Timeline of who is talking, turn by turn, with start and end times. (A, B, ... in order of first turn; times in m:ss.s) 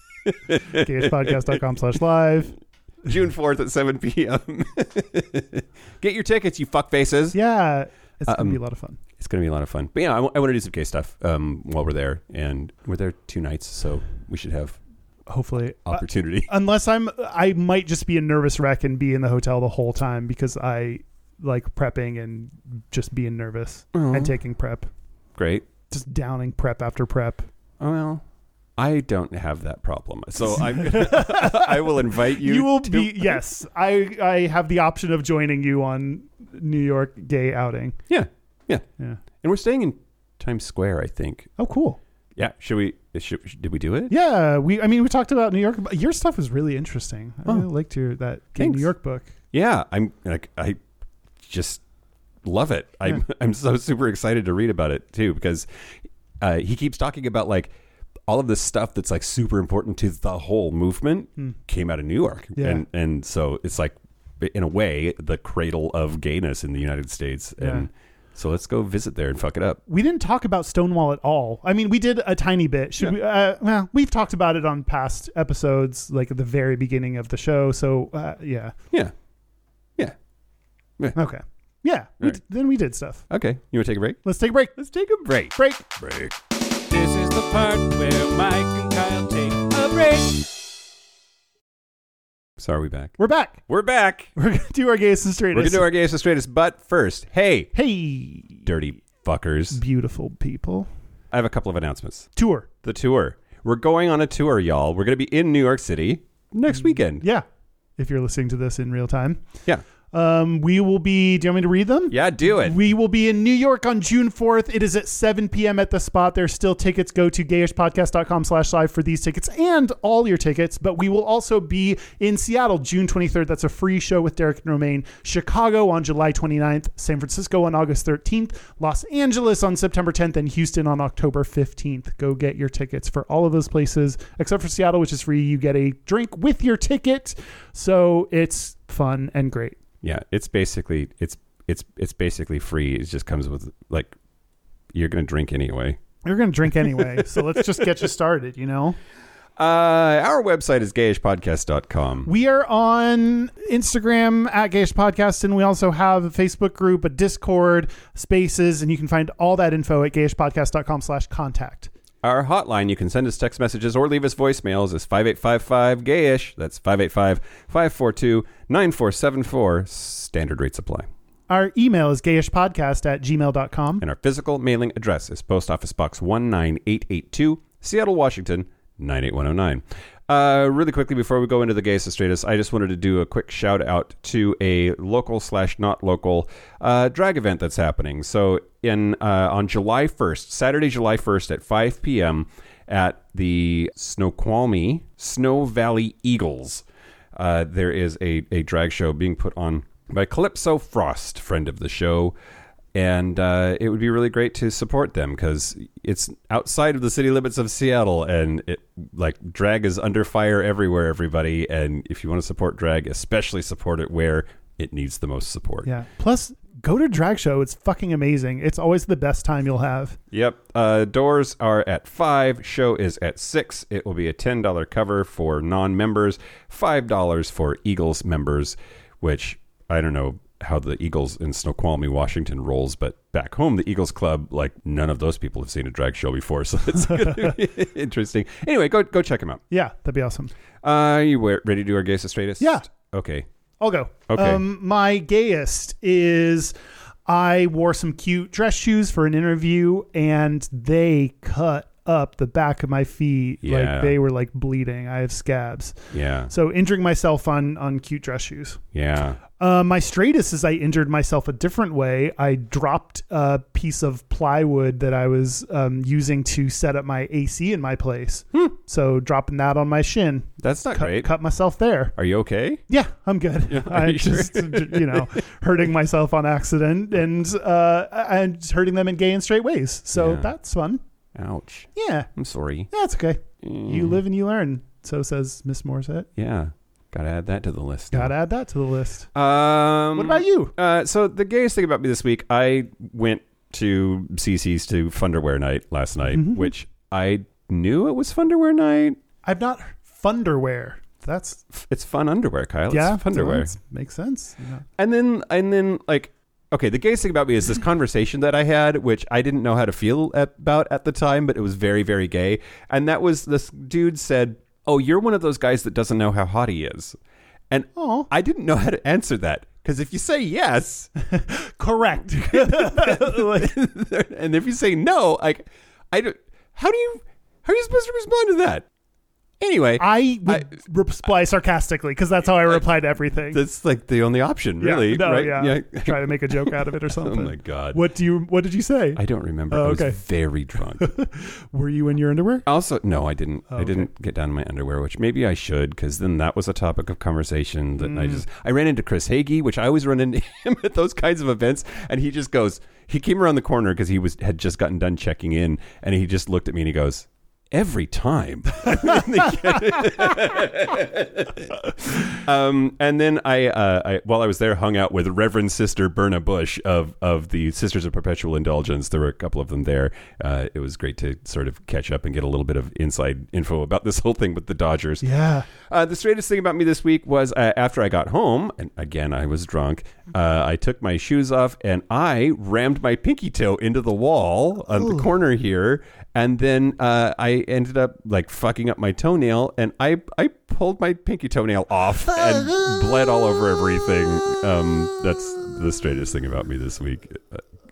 0:00.2-0:01.6 A
0:00.7-0:02.6 B
0:03.0-0:07.4 A
0:07.3-0:09.0 B
0:08.3-0:08.6 A
0:09.2-0:14.8 A
0:15.3-0:24.9 B
0:15.9-0:16.5 A
0:23.9-0:24.4 A
0:25.4-0:25.7 A
0:25.9-0:27.5 B
0:27.8-0:28.2 A
0:28.8-0:33.4 A
0:30.5-0:38.0 B
0:38.1-0:38.8 A
0:39.4-0:41.5 A
0:41.6-0:42.0 B
0:42.4-0:44.1 A
0:44.1-0:49.3 B
0:48.6-0:48.9 A
0:49.5-0:50.8 A
0:51.4-0:51.8 A
0:52.4-0:55.7 A
0:56.4-0:57.7 A
0:58.3-1:09.8 A
1:02.6-1:02.8 B
1:07.6-1:07.9 B
1:09.9-1:18.7 B
1:21.2-1:23.3 B
1:23.3-1:24.2 A
1:24.2-1:24.8 B
1:24.8-1:26.4 A
1:25.6-1:25.9 B
1:26.9-1:30.4 C
1:32.6-1:34.3 A
1:33.2-1:33.6 B
1:34.4-1:35.9 B
1:35.5-1:37.7 A
1:37.7-1:38.7 B
1:38.7-1:39.8 A
1:39.7-1:40.9 B
1:41.3-1:42.3 A
1:42.4-1:42.7 B
1:42.8-1:47.2 A
1:46.7-1:47.4 B
1:48.0-1:49.4 B
1:50.1-2:19.8 B
1:52.1-1:52.8 A
2:20.0-2:24.1 A
2:24.9-2:26.0 A
2:26.2-2:29.0 B
2:29.6-2:32.3 A
2:32.3-2:41.9 B
2:42.2-2:51.1 A
2:51.5-2:54.0 B
2:54.0-3:22.4 A
3:22.9-3:35.9 A
3:35.8-3:40.2 B
3:40.3-3:59.6 A
3:57.3-3:57.5 B
3:59.7-4:00.5 B
4:00.8-4:03.5 A
4:02.6-4:02.9 B
4:03.8-4:06.7 B
4:04.3-4:04.6 A
4:07.3-4:18.8 B
4:13.6-4:14.2 A
4:16.1-4:16.5 A
4:18.9-4:19.4 A
4:19.6-4:32.2 B
4:30.6-4:31.4 A
4:32.2-4:32.8 A
4:32.9-4:41.0 B
4:33.7-4:35.3 A
4:40.1-4:40.5 A
4:41.4-4:42.9 A
4:42.0-4:42.3 B
4:42.9-4:46.3 B
4:43.6-4:44.2 A
4:46.4-4:48.3 A
4:48.1-4:49.3 B
4:49.3-4:59.2 A
4:50.1-4:50.7 B
4:56.3-4:56.7 B
4:59.4-5:01.6 B
5:01.7-5:03.8 A
5:02.9-5:04.9 B
5:05.0-5:17.2 A
5:17.7-5:21.1 A
5:18.0-5:18.3 B
5:21.2-5:23.7 B
5:22.3-5:28.9 A
5:29.6-5:30.7 A
5:30.0-5:33.6 B
5:33.5-5:38.0 A
5:34.8-5:40.2 B
5:39.2-5:41.1 A
5:41.0-5:42.6 B
5:42.7-6:37.6 A
5:43.7-5:44.1 B
5:48.0-5:48.4 B
6:15.2-6:15.7 B
6:32.2-6:33.0 B